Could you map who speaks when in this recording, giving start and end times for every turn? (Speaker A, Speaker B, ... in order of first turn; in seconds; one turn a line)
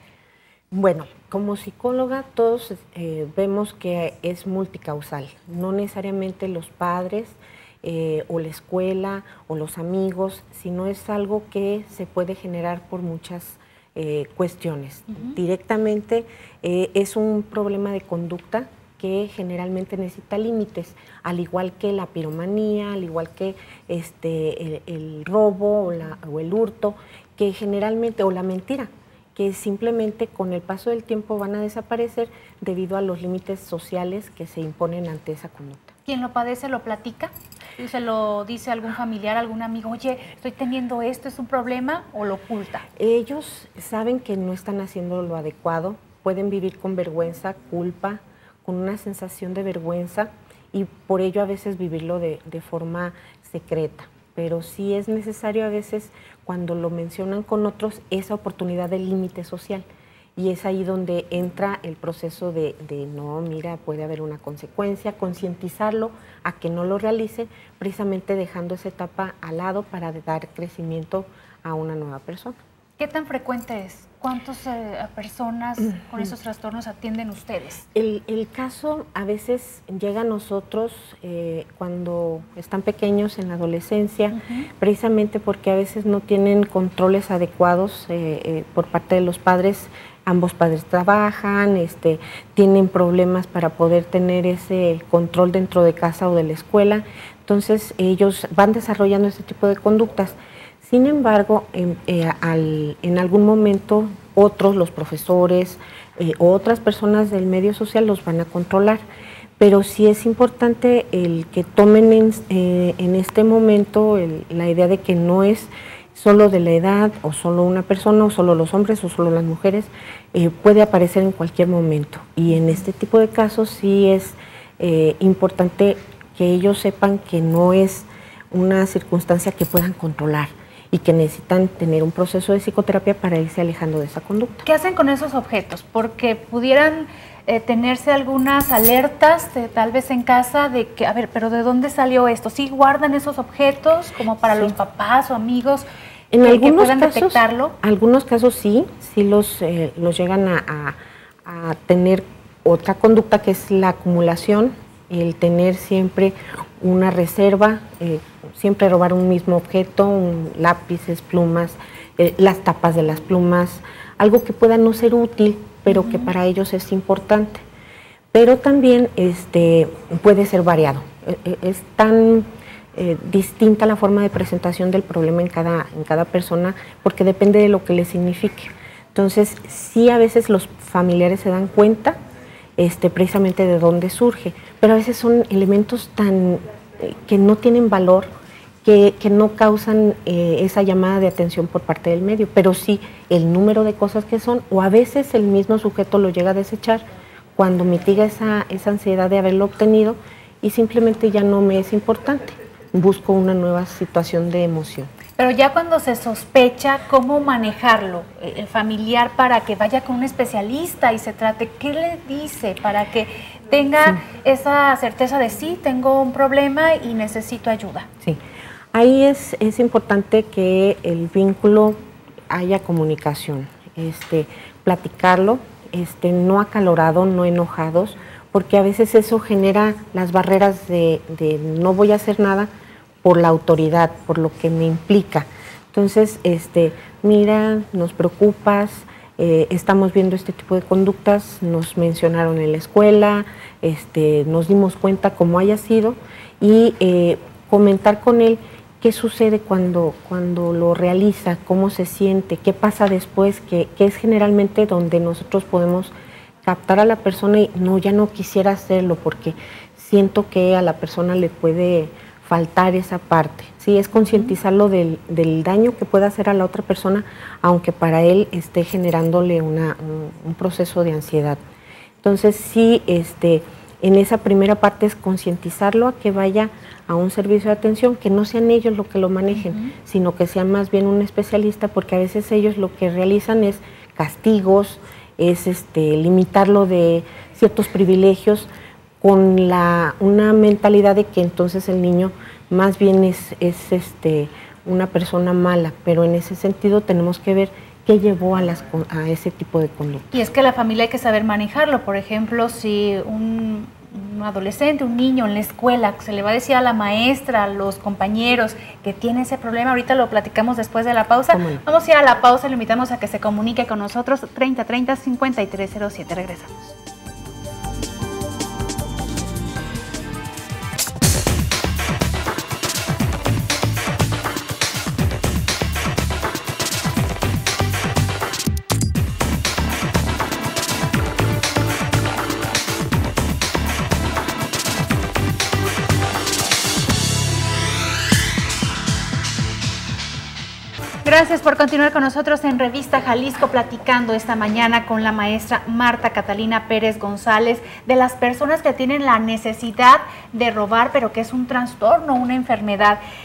Speaker A: 0.7-35.9
Speaker B: 15.1-15.4
Speaker B: 36.1-42.8
Speaker A: 43.0-72.6
Speaker B: 73.0-77.8
Speaker A: 77.9-109.0
Speaker B: 84.3-84.6
Speaker A: 109.6-134.6
Speaker B: 134.6-145.9
Speaker A: 146.3-167.6
Speaker B: 146.4-147.7
Speaker B: 165.9-166.3
Speaker A: 168.3-182.2
Speaker A: 182.8-188.3
Speaker A: 188.8-205.1
Speaker B: 205.4-218.1
Speaker A: 218.9-222.0
Speaker A: 222.5-232.7
Speaker A: 233.2-256.1
Speaker A: 256.6-271.6
Speaker A: 272.2-288.7
Speaker B: 279.6-279.9
Speaker A: 289.2-300.2
Speaker B: 300.3-316.9
Speaker A: 311.5-311.8
Speaker B: 341.2-353.2